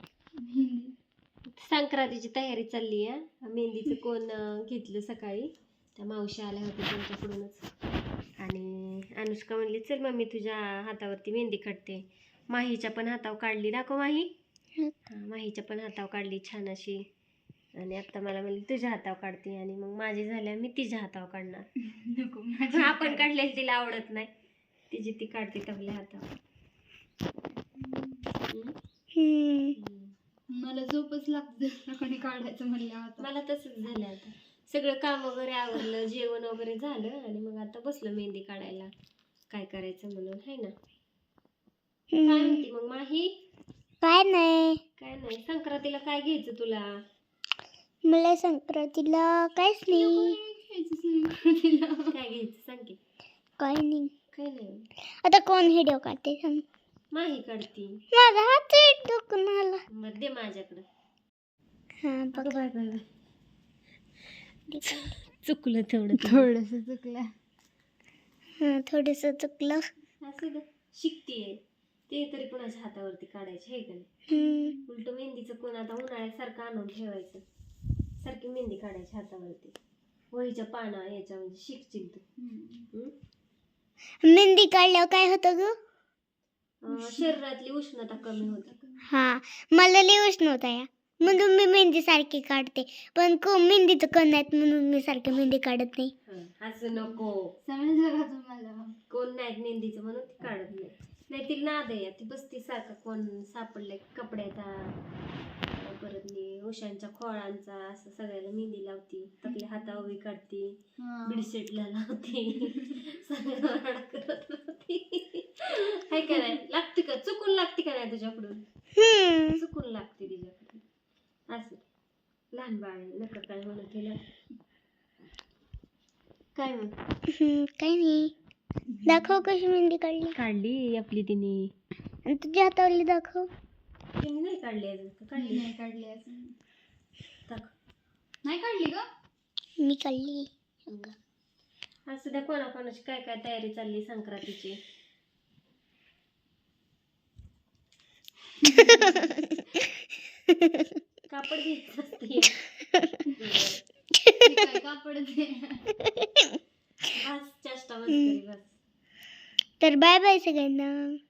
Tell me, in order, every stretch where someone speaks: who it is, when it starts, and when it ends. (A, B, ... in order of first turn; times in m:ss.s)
0:00.4-0:00.9 A
0:01.6-0:07.6 B
0:08.4-0:14.3 B
0:15.1-0:17.0 B
0:17.8-0:21.7 B
0:21.8-0:23.3 A
0:22.7-0:24.3 B
0:24.9-0:26.3 B
0:27.7-0:28.3 A
0:29.2-0:29.8 C
0:29.8-0:30.1 B
0:30.5-0:33.3 A
0:33.2-0:38.9 B
0:39.5-0:40.7 B
0:42.1-0:42.6 C
0:42.2-0:43.3 B
0:44.0-0:44.8 C
0:45.0-0:46.9 B
0:48.1-0:50.4 C
0:49.9-0:52.2 A
0:52.1-0:53.0 B
0:53.6-0:54.1 C
0:54.3-0:54.8 B
0:55.2-0:56.6 C
0:57.1-0:58.0 B
0:58.1-0:59.8 C
0:59.9-1:00.8 B
1:02.0-1:02.6 C
1:02.3-1:03.0 B
1:04.7-1:05.1 C
1:04.8-1:06.5 B
1:06.2-1:07.3 A
1:08.6-1:09.9 C
1:10.2-1:11.6 B
1:12.1-1:14.2 B
1:14.3-1:14.8 C
1:14.3-1:14.8 A
1:14.9-1:17.4 B
1:18.2-1:19.8 B
1:20.3-1:22.2 B
1:22.4-1:22.9 A
1:24.2-1:25.8 C
1:26.8-1:28.7 B
1:26.9-1:27.4 A
1:28.2-1:29.1 A
1:29.1-1:36.1 C
1:36.3-1:37.5 B
1:37.0-1:39.0 A
1:39.1-1:45.0 B
1:45.8-1:58.6 B
1:51.0-1:51.5 A
1:59.0-1:59.6 C
1:59.6-2:00.8 B
2:01.5-2:01.8 B
2:02.5-2:04.2 B
2:06.6-2:06.9 B
2:07.3-2:08.3 C
2:08.9-2:09.3 A
2:09.0-2:10.4 C
2:10.4-2:11.7 B
2:12.3-2:13.5 C
2:14.2-2:15.7 B
2:15.4-2:16.5 A
2:18.4-2:19.0 A
2:19.8-2:21.1 C
2:22.1-2:24.8 B
2:28.6-2:29.3 A
2:28.8-2:29.9 C
2:30.5-2:30.9 C
2:31.3-2:32.6 B
2:33.4-2:33.8 B
2:34.4-2:35.9 A
2:36.1-2:36.6 C
2:37.1-2:38.7 B
2:39.8-2:41.2 C